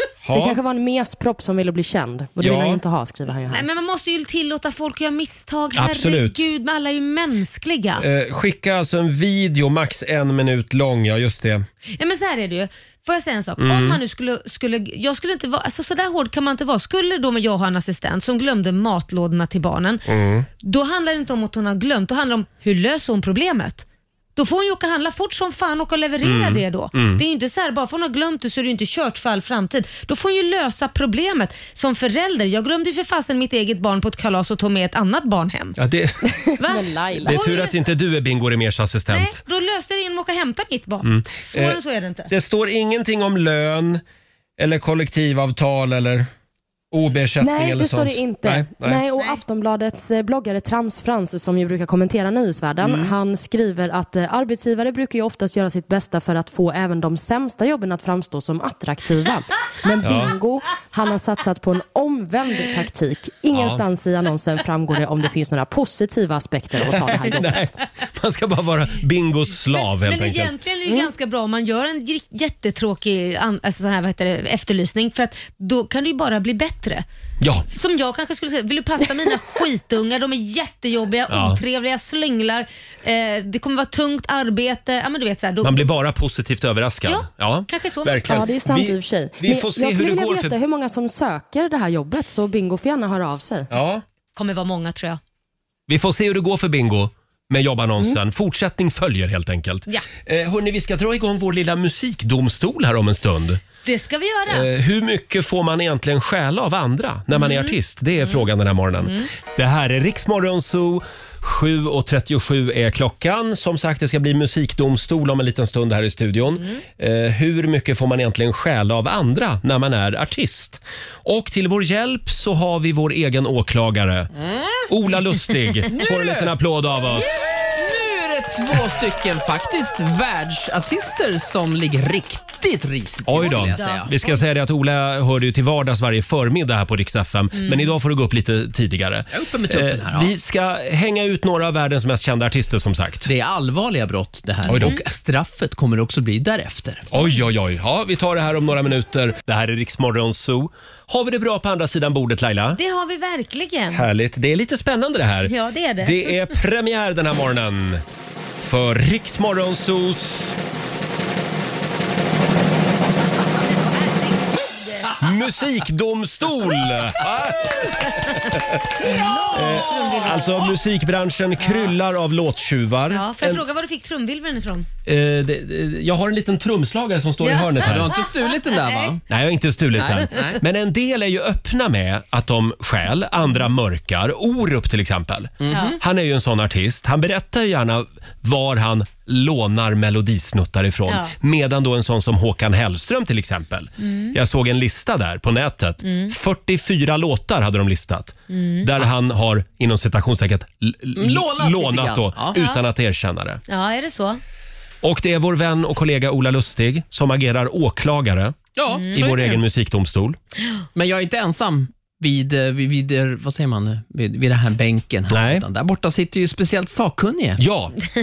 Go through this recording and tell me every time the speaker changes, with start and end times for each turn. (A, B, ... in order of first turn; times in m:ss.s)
0:00.2-0:00.6 A
0:00.3-0:03.7 B
0:02.4-0:02.8 A
0:03.5-0:08.0 C
0:05.8-0:06.4 A
0:08.0-0:11.6 A
0:12.0-0:20.0 C
0:13.6-0:14.0 A
0:20.1-0:20.5 A
0:20.6-0:23.8 C
0:24.4-0:35.8 C
0:26.2-0:27.2 A
0:35.8-0:36.5 A
0:36.3-0:37.4 B
0:36.6-0:37.8 C
0:37.3-0:39.4 A
0:39.1-0:42.3 C
0:41.0-0:41.8 A
0:42.3-0:44.0 A
0:44.6-0:46.3 A
0:46.9-0:49.0 A
0:47.4-1:07.6 B
0:52.8-0:53.1 A
1:00.0-1:00.3 A
1:03.5-1:03.8 A
1:06.8-1:10.5 A
1:09.8-1:17.0 C
1:17.4-1:17.7 A
1:17.7-1:25.8 C
1:21.3-1:21.6 A
1:25.6-1:30.5 A
1:27.1-1:28.5 C
1:28.2-1:33.7 B
1:33.7-1:34.0 A
1:34.4-1:35.2 C
1:35.9-1:43.6 A
1:43.8-1:44.7 C
1:44.5-2:04.3 A
1:47.3-1:48.4 C
1:49.0-1:49.3 C
2:04.4-2:04.8 D
2:04.9-2:07.4 A
2:05.9-2:06.5 D
2:07.1-2:14.1 D
2:13.3-2:23.3 A
2:13.4-2:14.4 C
2:17.6-2:17.9 C
2:19.3-2:20.3 D
2:23.2-2:27.0 D
2:24.7-2:25.0 C
2:24.7-2:25.0 A
2:27.1-2:32.8 A
2:32.8-2:34.1 C
2:33.9-2:38.0 A
2:35.5-2:36.4 C
2:38.6-2:40.6 A
2:43.7-2:45.2 C
2:45.2-2:53.6 A
2:49.0-2:50.7 C
2:49.2-2:50.5 D
2:51.6-2:52.0 C
2:53.1-2:54.9 C
2:55.1-2:58.2 A
2:57.4-2:59.2 C
2:57.8-2:59.2 D
2:59.3-3:23.6 A
3:00.0-3:00.6 D
3:05.6-3:06.0 D
3:05.7-3:06.0 C
3:11.1-3:11.3 C
3:14.0-3:14.4 C
3:16.0-3:16.3 C
3:18.5-3:18.9 C
3:21.2-3:22.6 D
3:22.6-3:22.8 C
3:23.7-3:24.4 C
3:25.0-3:30.4 A
3:28.8-3:29.6 D
3:28.9-3:29.2 C
3:31.0-3:37.6 D
3:35.3-3:35.6 A
3:37.6-3:38.0 A